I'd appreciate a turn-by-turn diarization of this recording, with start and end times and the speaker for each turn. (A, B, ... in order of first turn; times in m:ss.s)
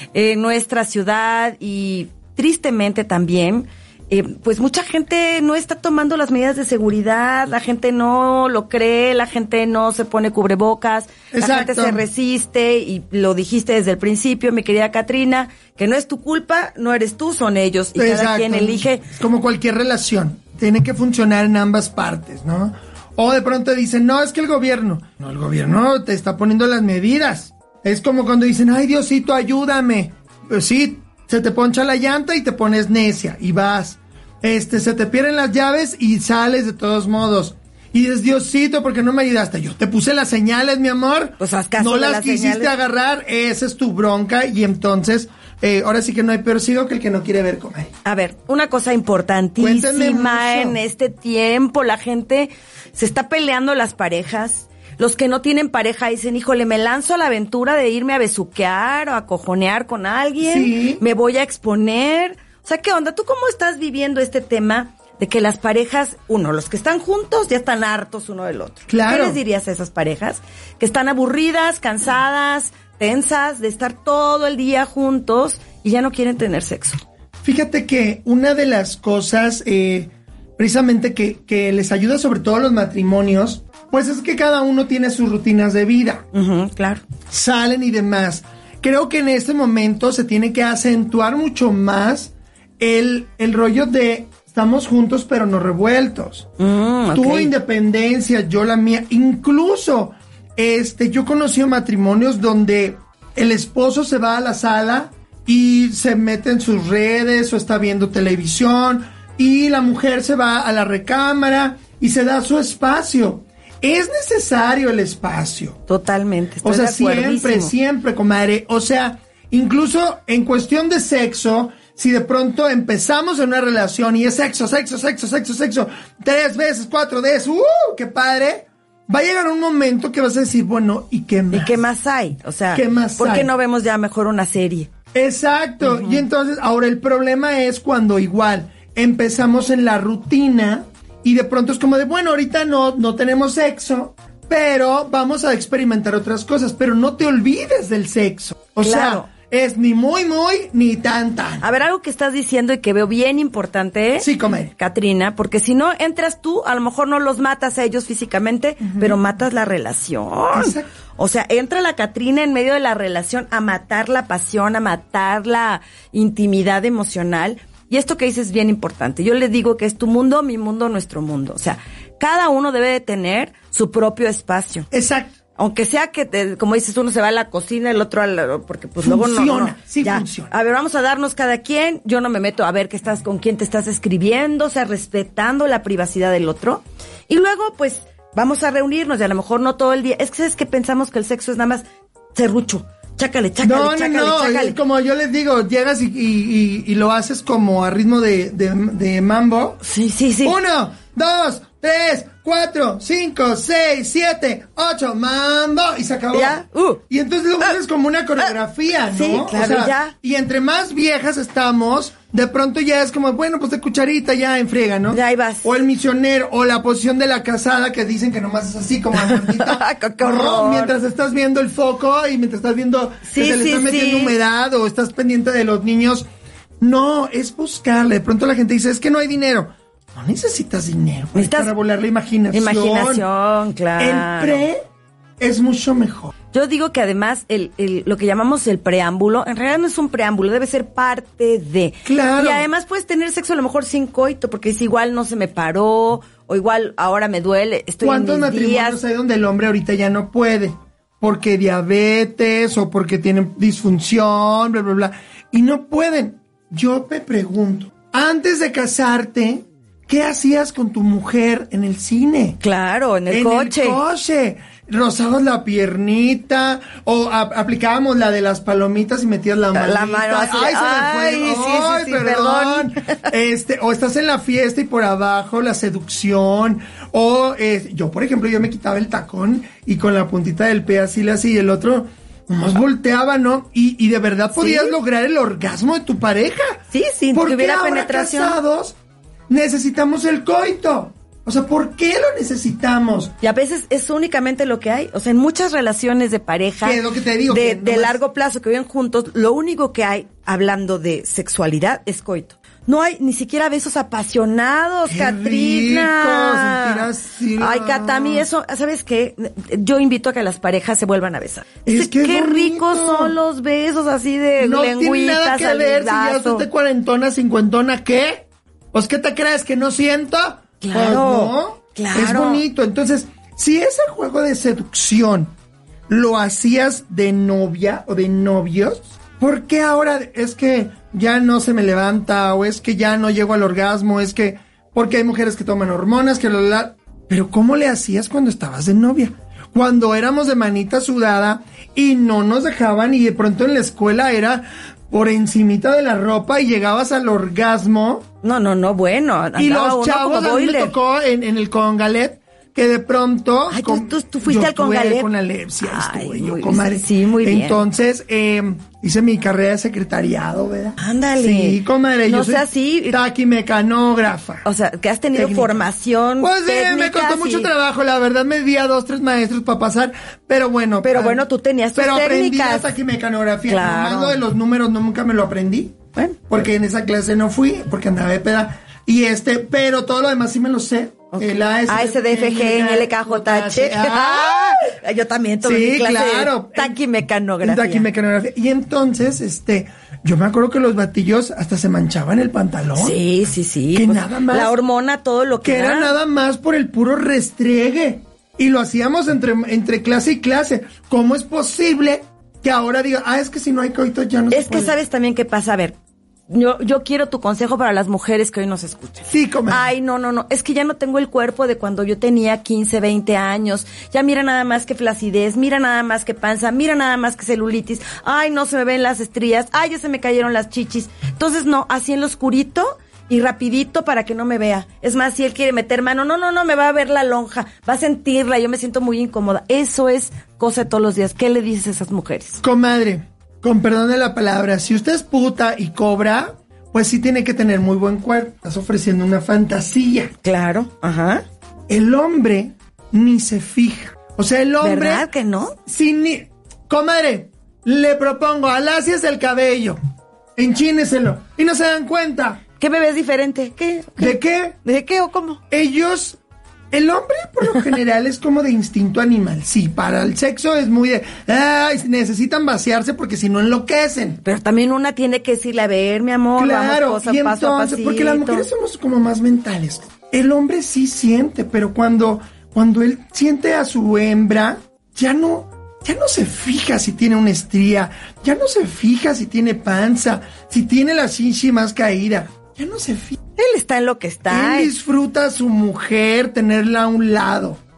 0:00.1-0:19.0 A
0:11.3-0:12.0 B
0:18.0-0:47.9 B
0:41.4-0:42.7 A
0:48.0-1:17.0 A
0:49.6-0:50.8 B
1:00.4-1:01.0 B
1:08.9-1:09.4 B
1:17.4-1:26.2 B
1:26.3-1:27.0 A
1:27.3-1:36.5 B
1:36.6-1:37.5 A
1:37.1-1:55.8 B
1:55.9-1:57.7 A
1:56.6-2:11.8 B
2:11.5-2:14.9 A
2:12.7-2:13.5 B
2:15.1-2:31.6 B
2:15.8-2:16.2 A
2:28.8-2:29.3 A
2:31.6-2:54.9 A
2:34.2-2:34.7 B
2:38.8-2:39.2 B
2:40.5-2:40.9 B
2:54.9-2:55.3 B
2:55.6-3:14.8 A
2:59.0-3:00.5 B
3:13.6-3:19.8 B
3:19.8-3:20.6 A
3:20.4-3:46.2 B
3:26.3-3:27.0 A
3:29.1-3:30.1 A
3:35.1-3:35.7 A
3:39.2-3:40.9 A
3:43.2-3:44.3 A
3:46.8-3:53.2 B
3:51.3-3:51.7 A
3:52.5-3:54.6 A
3:54.0-3:54.8 B
3:55.4-3:56.3 B
3:56.5-4:09.0 A
4:02.0-4:02.6 B
4:08.0-4:22.6 B
4:22.6-4:24.0 A
4:23.3-4:48.9 B
4:29.7-4:33.2 A
4:44.5-4:44.9 A
4:46.9-4:48.6 A
4:49.5-4:53.3 B
4:53.4-5:07.1 A
4:56.8-4:58.2 B
5:05.1-5:08.4 B
5:07.6-5:16.6 A
5:11.8-5:13.4 B
5:14.6-5:25.5 B
5:20.8-5:22.6 A
5:26.1-5:48.3 B
5:48.4-5:50.9 A
5:49.6-6:04.6 B
5:53.7-5:55.3 A
5:55.8-5:57.8 A
6:01.0-6:03.2 A
6:04.6-6:07.7 A
6:05.3-6:05.9 B
6:06.4-6:11.4 B
6:11.0-6:12.9 A
6:12.0-6:16.0 B
6:13.7-6:14.4 A
6:16.5-6:24.9 B
6:21.3-6:28.1 A
6:25.6-6:27.0 B
6:27.6-6:33.2 B
6:33.0-6:36.1 A
6:33.9-6:34.7 B
6:35.6-6:45.0 B
6:44.5-6:45.9 A
6:46.5-7:12.6 A
6:49.3-6:49.9 B
7:12.6-7:20.3 B
7:20.4-7:21.4 A
7:21.9-7:25.3 B
7:24.8-7:25.8 A
7:25.8-7:30.0 B
7:30.6-7:32.6 B
7:32.8-7:35.6 A
7:34.2-7:34.8 B
7:35.7-7:36.4 B
7:36.9-7:44.4 B
7:44.4-7:48.7 A
7:46.6-8:03.4 B
8:03.6-8:04.9 A
8:04.5-8:07.8 B